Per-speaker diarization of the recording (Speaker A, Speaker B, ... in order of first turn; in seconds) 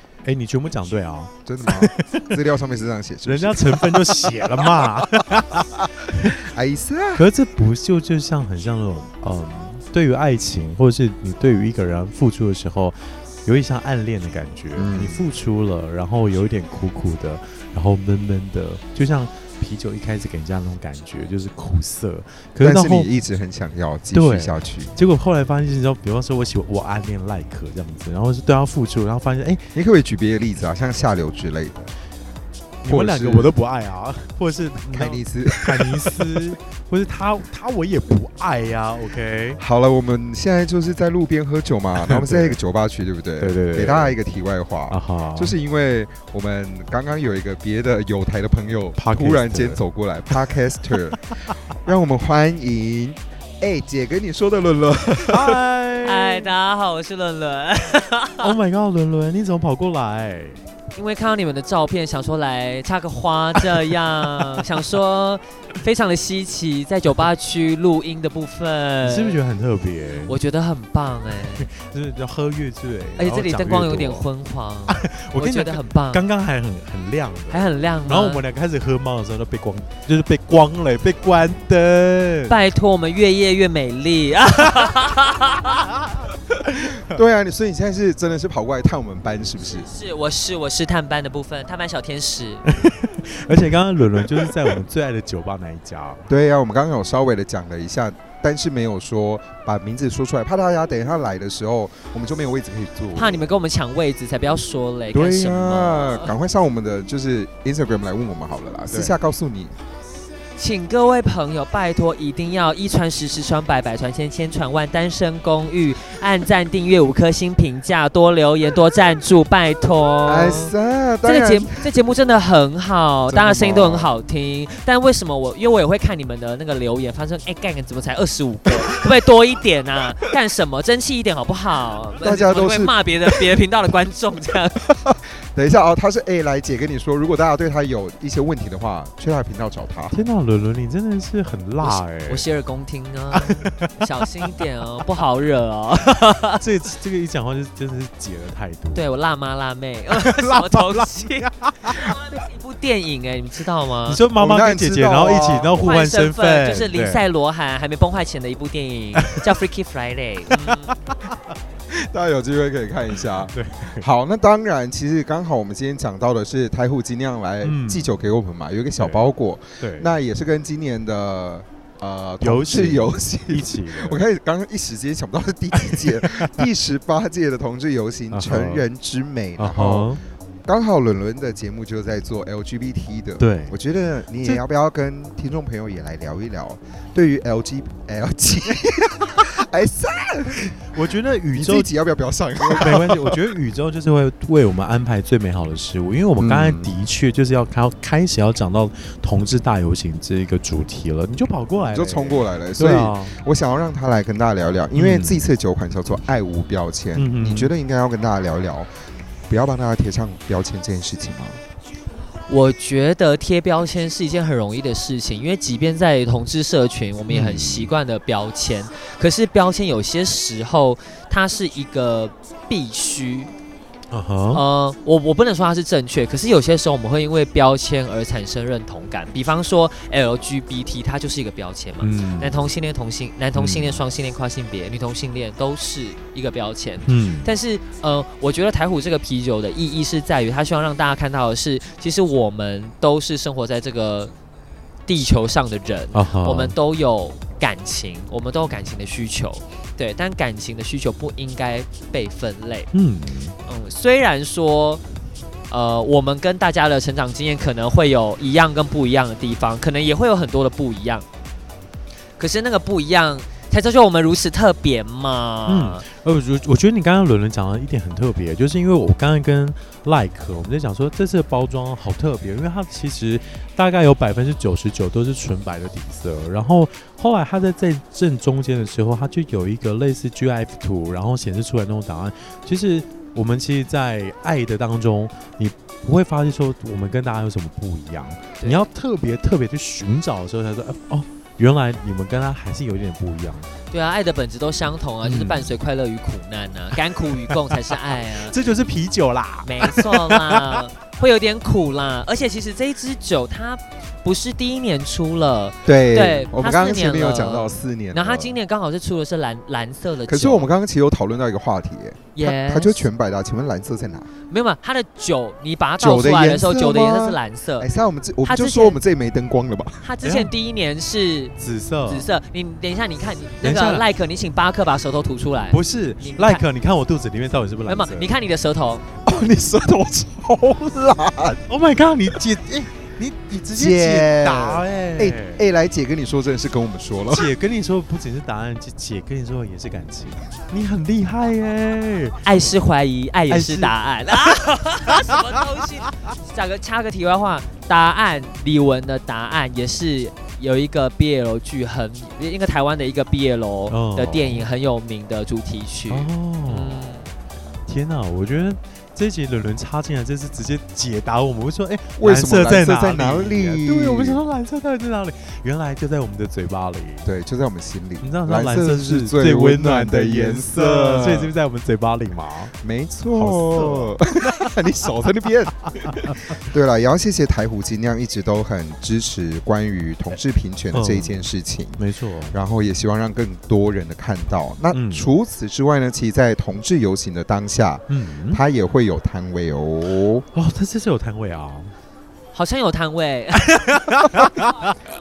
Speaker A: 0.2-2.4, 3.3-6.4, 7.2-23.1, 24.1-29.7, 32.8-39.6, 42.0-42.6, 43.4-44.2, 44.9-45.5, 49.0-49.8, 55.3-56.5, 58.4-60.6, 69.0-70.4, 71.4-74.3, 74.9-82.5, 92.7-96.3, 140.1-142.4, 143.3-144.0, 146.6-149.1, 150.1-152.2, 154.1-157.2, 160.6-161.3, 163.5-164.1, 167.6-168.1, 169.0-169.2, 169.8-170.1, 172.4-174.2, 175.8-176.6, 178.3-178.9, 179.6-180.2, 183.4-183.8, 190.9-191.9, 192.6-203.4, 204.9-205.4, 207.2-207.7, 217.3-217.9, 224.1-224.6, 232.0-232.6, 233.6-234.0, 237.1-237.5, 246.1-246.8, 252.9-253.6, 265.7-293.7, 295.2-295.8, 297.1-300.8, 320.2-320.5, 321.6-322.3, 323.6-324.1, 325.7-328.3, 331.7-335.6, 337.3-342.4, 343.5-343.9, 345.1-345.4, 353.9-354.6, 356.1-357.3, 357.9-367.3, 368.2-372.8, 373.3-374.8, 376.0-376.6, 380.9-382.6, 384.9-385.3, 388.1-388.6, 390.5-391.9, 393.6-395.0
Speaker B: 1.4-5.1, 5.6-7.3, 14.8-15.3, 22.6-24.9, 29.8-31.9, 32.9-33.5, 34.9-36.5, 39.6-55.6, 87.0-89.9, 96.3-103.5, 105.1-109.8, 120.2-121.9, 123.3-124.1, 132.2-132.9, 135.1-140.2, 154.3-155.8, 161.9-180.1, 180.7-190.8, 191.5-193.5, 196.4-196.9, 201.9-208.9, 209.5-211.6, 305.9-308.6, 310.3-314.3, 316.0-320.1, 329.2-331.6, 333.7-337.5, 362.2-364.4, 367.2-371.5, 372.8-390.5
Speaker C: 56.0-58.5, 61.0-69.4, 70.3-71.7, 73.2-76.2, 77.5-78.4, 82.5-85.8, 89.7-92.7, 103.2-106.3, 110.6-120.7, 121.2-134.9, 141.8-146.6, 148.9-154.2, 155.6-160.9, 212.5-223.5, 224.5-244.3, 245.1-252.9, 253.7-255.0, 255.7-261.2, 262.4-266.0, 288.6-288.9, 293.9-298.6, 299.6-310.7, 312.4-313.1, 314.5-317.9, 318.4-319.0, 320.0-321.6, 322.1-326.6, 327.9-329.1, 342.4-357.3, 392.5-394.0